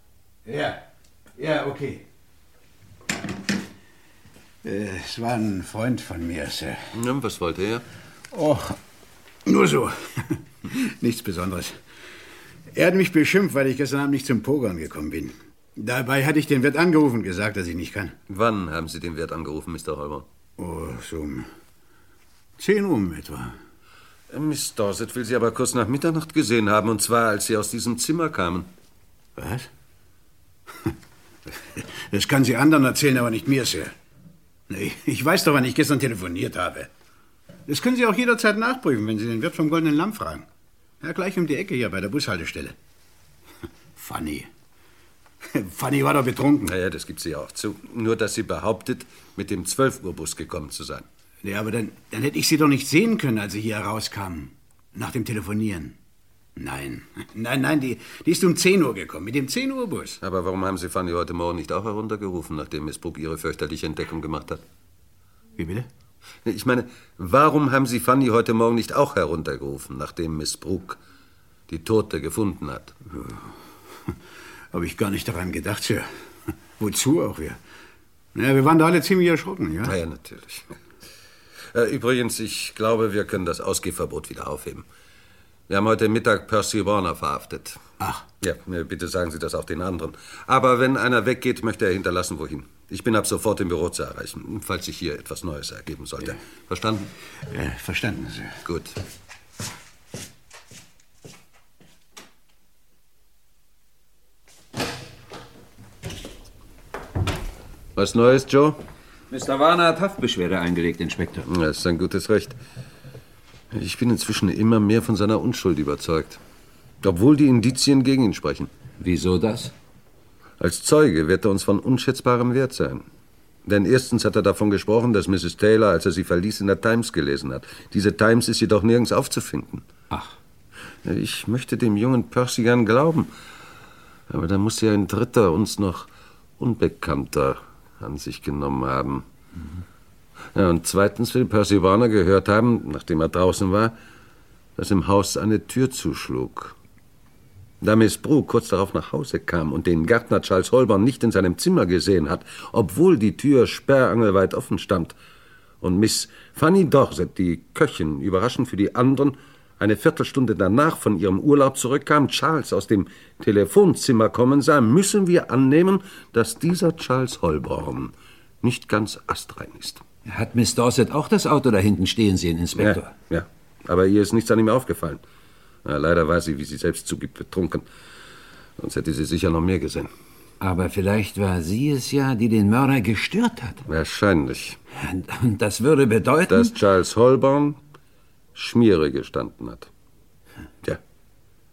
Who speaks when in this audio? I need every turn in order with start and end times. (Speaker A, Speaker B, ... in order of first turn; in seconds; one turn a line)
Speaker A: 0.5-0.8
Speaker A: 1.4-2.0
Speaker A: 4.6-6.8
Speaker B: 6.9-7.8
Speaker A: 8.3-8.8
Speaker A: 9.5-11.8
Speaker A: 12.7-18.1
Speaker B: 18.3-20.3
Speaker A: 20.6-21.5
Speaker A: 22.6-23.5
Speaker B: 24.3-28.7
Speaker A: 29.4-29.7
Speaker A: 31.8-33.9
Speaker A: 34.7-36.9
Speaker A: 37.7-40.5
Speaker A: 41.0-42.8
Speaker A: 44.0-44.5
Speaker A: 45.5-46.7
Speaker B: 46.6-51.1
Speaker A: 51.4-56.0
Speaker A: 56.6-60.2
Speaker B: 60.2-64.6
Speaker A: 65.6-65.9
Speaker B: 66.5-71.0
Speaker B: 71.7-72.9
Speaker A: 73.1-73.4
Speaker A: 74.7-76.1
Speaker A: 76.8-77.6
Speaker A: 78.3-80.0
Speaker B: 79.8-80.7
Speaker B: 81.7-84.8
Speaker B: 85.7-87.8
Speaker B: 88.4-97.1
Speaker A: 97.5-98.6
Speaker B: 98.7-99.0
Speaker B: 108.0-108.8
Speaker C: 109.3-111.5
Speaker B: 111.5-112.6
Speaker B: 113.7-116.4
Speaker B: 117.0-118.7
Speaker C: 119.0-119.7
Speaker B: 120.6-123.0
Speaker B: 123.7-129.9
Speaker B: 131.1-133.3
Speaker B: 134.3-136.1
Speaker B: 136.6-139.3
Speaker B: 140.6-143.9
Speaker B: 144.8-146.8
Speaker B: 147.8-155.2
Speaker B: 155.8-170.0
Speaker C: 170.3-173.1
Speaker B: 172.8-175.2
Speaker B: 175.8-177.8
Speaker B: 178.8-180.1
Speaker C: 180.6-183.8
Speaker B: 183.9-184.8
Speaker C: 184.9-186.7
Speaker B: 186.5-187.8
Speaker B: 188.6-189.9